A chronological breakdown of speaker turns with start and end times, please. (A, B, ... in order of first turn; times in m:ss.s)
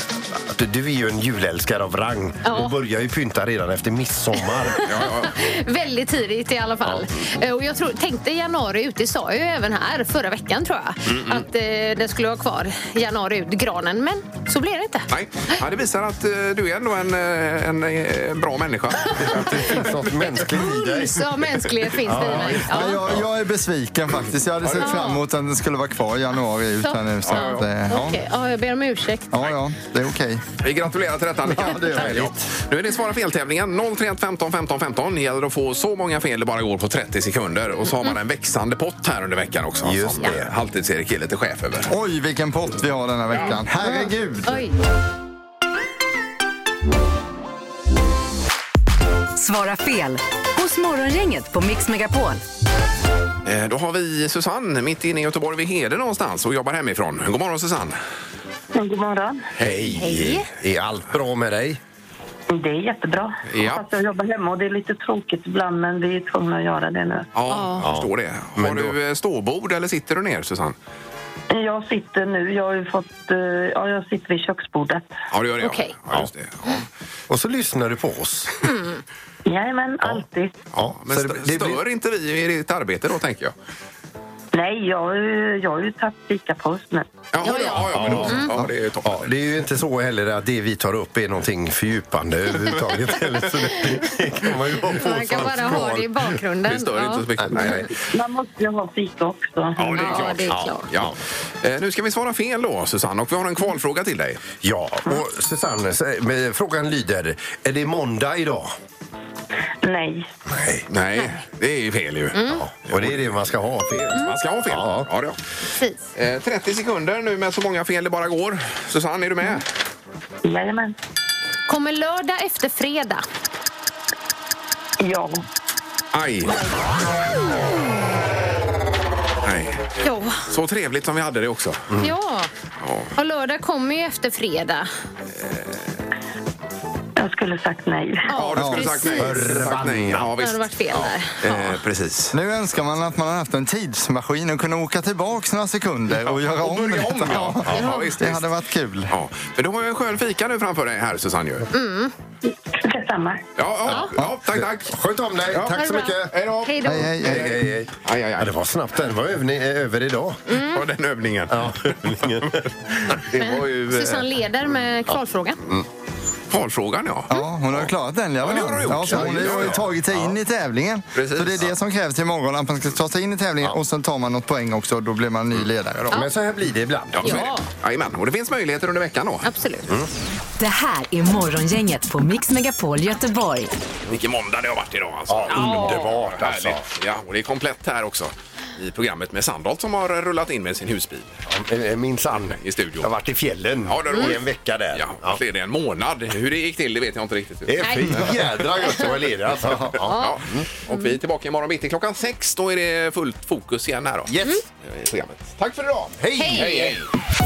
0:00.3-0:04.9 A
0:02.4-0:02.7 B
0:04.7-0:15.6 B
0:04.8-0:05.4 C
0:15.1-0:20.3 C
0:19.1-0:21.3 A
0:20.4-0:23.0 B
0:22.0-0:23.3 A
0:22.1-0:28.2 D
0:24.8-0:25.2 B
0:26.8-0:29.5 B
0:27.2-0:27.7 C
0:29.3-0:30.4 D
0:30.6-0:41.9 C
0:31.4-0:32.5 D
0:31.8-0:32.1 B
0:39.8-0:40.5 A
0:41.9-0:44.6 D
0:43.8-0:44.7 B
0:49.4-0:52.4 E
0:53.4-0:58.0 C
0:58.7-0:59.5 F
0:59.6-1:01.8 A
0:59.6-1:00.2 C
1:00.0-1:00.5 B
1:02.5-1:07.3 F
1:03.5-1:03.8 C
1:07.3-1:10.8 C
1:07.5-1:07.9 B
1:07.8-1:09.0 A
1:11.5-1:15.1 F
1:15.3-1:16.8 C
1:15.6-1:15.9 B
1:17.3-1:18.6 A
1:18.6-1:19.0 B
1:19.4-1:20.6 F
1:20.0-1:21.8 A
1:20.8-1:23.5 C
1:24.5-1:27.3 F
1:27.3-1:29.3 C
1:27.4-1:28.5 B
1:27.9-1:36.3 A
1:34.9-1:37.9 B
1:36.6-1:37.9 C
1:37.4-1:37.8 A
1:38.1-1:40.1 F
1:39.8-1:44.4 C
1:39.9-1:40.9 B
1:40.1-1:41.2 A
1:44.6-1:48.7 A
1:49.8-1:50.3 F
1:50.5-1:50.9 A
1:50.9-1:53.5 C
1:52.3-1:52.6 B
1:52.5-1:55.1 A
1:54.1-1:55.4 C
1:56.1-1:59.6 C
2:00.4-2:00.9 F
2:01.7-2:03.2 B
2:05.0-2:05.4 F
2:06.1-2:06.6 C
2:09.4-2:09.8 C
2:10.0-2:10.4 B
2:10.4-2:11.9 C
2:12.0-2:12.5 B
2:12.8-2:13.1 C
2:13.2-2:14.9 B
2:17.2-2:18.3 F
2:18.3-2:19.6 B
2:18.3-2:22.3 C
2:18.5-2:18.9 D
2:19.1-2:20.3 A
2:20.4-2:21.8 B
2:22.3-2:29.1 D
2:26.1-2:28.5 C
2:27.8-2:28.1 B
2:29.1-2:31.7 C
2:31.7-2:32.1 B
2:32.7-2:33.4 F
2:33.6-2:34.9 C
2:33.9-2:36.3 A
2:35.5-2:38.6 C
2:35.7-2:37.1 B
2:36.8-2:37.6 D
2:37.2-2:40.4 A
2:40.5-2:40.8 B
2:40.6-2:44.3 C
2:41.5-2:43.2 A
2:43.4-2:45.6 B
2:46.5-2:47.9 C
2:47.3-2:56.1 D
2:48.4-2:49.8 C
2:48.5-2:50.3 A
2:51.1-2:51.7 C
2:56.1-2:57.5 A
2:57.1-2:59.5 C
2:57.2-2:57.6 B
2:59.4-2:59.9 B
3:00.6-3:03.7 E
3:04.1-3:11.3 C
3:05.3-3:06.8 A
3:05.5-3:06.1 B
3:11.5-3:15.4 A
3:12.5-3:13.1 C
3:13.8-3:19.0 C
3:17.7-3:20.7 A
3:17.8-3:18.2 B
3:19.9-3:20.4 B
3:20.1-3:24.3 C
3:20.9-3:21.1 B
3:24.3-3:24.6 A
3:24.8-3:27.1 C
3:26.2-3:26.9 A
3:26.4-3:26.9 B